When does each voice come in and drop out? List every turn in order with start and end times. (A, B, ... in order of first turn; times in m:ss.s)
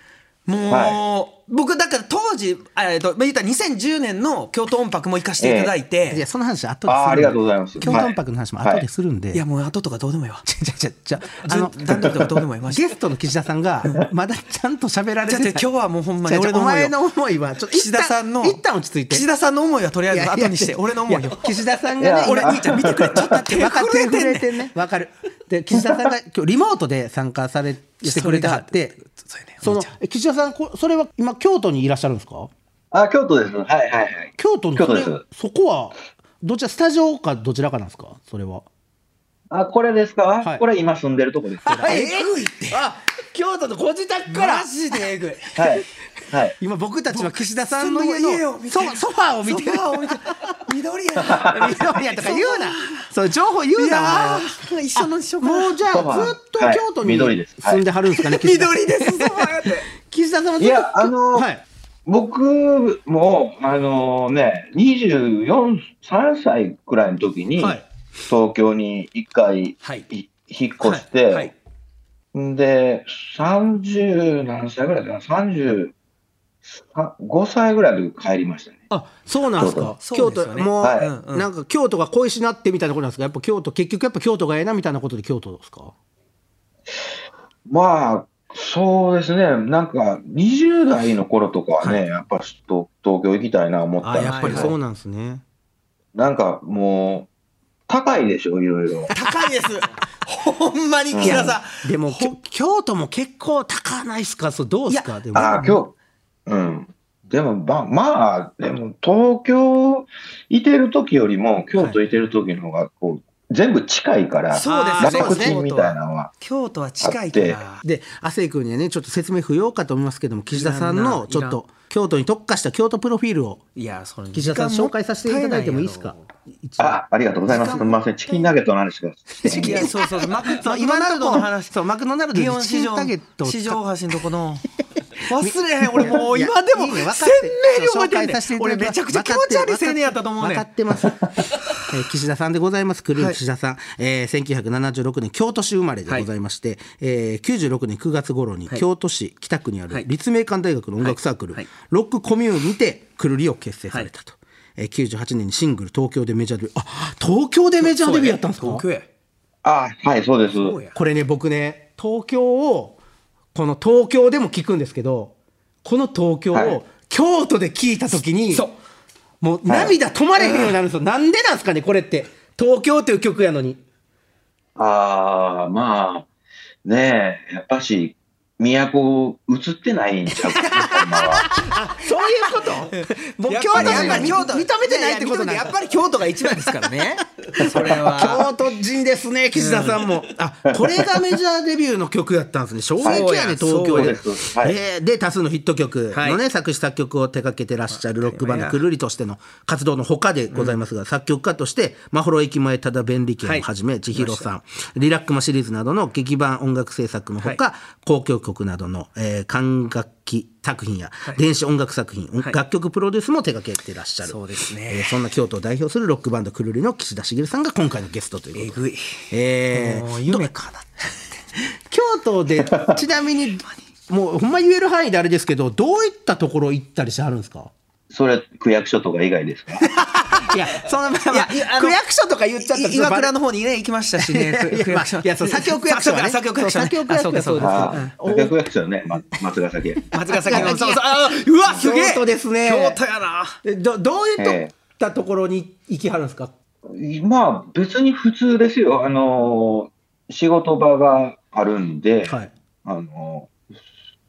0:00.4-0:06.2 A
0:00.7-0:01.0 B
0:05.4-0:05.7 B
0:06.1-0:09.4 C
0:06.9-0:08.8 B
0:07.8-0:08.1 A
0:09.3-0:10.4 A
0:10.4-0:15.6 C
0:11.4-0:12.9 A
0:15.3-0:17.0 A
0:16.2-0:19.2 C
0:17.7-0:21.6 A
0:20.1-0:29.0 C
0:22.0-0:23.4 B
0:22.2-0:24.7 A
0:28.0-0:29.9 A
0:29.6-0:32.5 C
0:32.9-0:35.2 B
0:34.4-0:38.6 C
0:39.5-0:41.9 B
0:41.6-0:44.7 C
0:41.8-0:42.8 A
0:44.3-0:45.7 A
0:45.6-0:46.5 B
0:46.6-0:50.6 C
0:47.1-0:53.0 A
0:51.2-0:51.5 B
0:51.4-0:54.5 C
0:53.8-0:55.8 A
0:55.4-1:01.6 C
0:55.9-0:57.8 B
0:58.1-0:59.9 A
1:00.6-1:01.5 B
1:02.0-1:11.5 B
1:07.6-1:07.8 C
1:10.8-1:11.5 A
1:12.3-1:15.9 B
1:16.8-1:18.8 B
1:18.9-1:25.9 C
1:19.6-1:19.9 B
1:19.6-1:21.5 A
1:20.8-1:21.1 B
1:27.7-1:34.7 B
1:34.0-1:35.4 C
1:34.2-1:34.7 A
1:36.1-1:37.3 B
1:37.9-1:39.1 B
1:39.1-1:42.4 A
1:41.1-1:41.5 B
1:41.2-1:45.7 C
1:44.9-1:45.8 A
1:45.3-1:45.9 B
1:46.5-1:56.3 B
1:54.5-1:57.8 A
1:54.6-1:55.6 C
1:57.0-1:57.6 B
1:57.8-2:03.6 C
2:00.5-2:01.6 A
2:03.8-2:06.3 A
2:04.3-2:07.0 C
2:06.8-2:09.9 B
2:07.5-2:07.9 A
2:09.3-2:13.8 C
2:09.4-2:11.8 A
2:12.3-2:14.6 A
2:15.2-2:20.7 A
2:15.3-2:38.8 C
2:31.0-2:31.7 A
2:37.8-2:39.1 A
2:39.6-2:40.8 B
2:40.5-2:41.0 A
2:40.9-2:43.0 C
2:43.5-2:48.6 C
2:46.5-2:46.8 B
2:49.4-2:53.8 C
2:49.7-2:49.9 B
2:54.8-2:56.2 B
2:56.8-3:01.5 B
3:01.5-3:06.9 C
3:02.8-3:08.5 A
3:03.8-3:04.3 B
3:07.5-3:38.8 C
3:09.5-3:10.2 A
3:13.0-3:14.2 A
3:13.9-3:14.8 B
3:16.1-3:16.4 A
3:17.9-3:18.8 A
3:20.5-3:20.8 A
3:23.4-3:24.5 A
3:34.2-3:35.2 A
3:38.5-3:41.2 A
3:39.3-3:40.5 C
3:41.9-3:47.7 C
3:48.1-3:49.9 B
3:50.0-3:53.3 C
3:51.2-3:52.0 A
3:52.6-3:58.1 A
3:54.2-3:58.5 C
3:57.6-4:00.7 B
4:00.1-4:03.6 A
4:00.4-4:01.0 C
4:01.7-4:03.0 C
4:03.6-4:06.5 C
4:04.4-4:04.7 B
4:06.9-4:13.5 B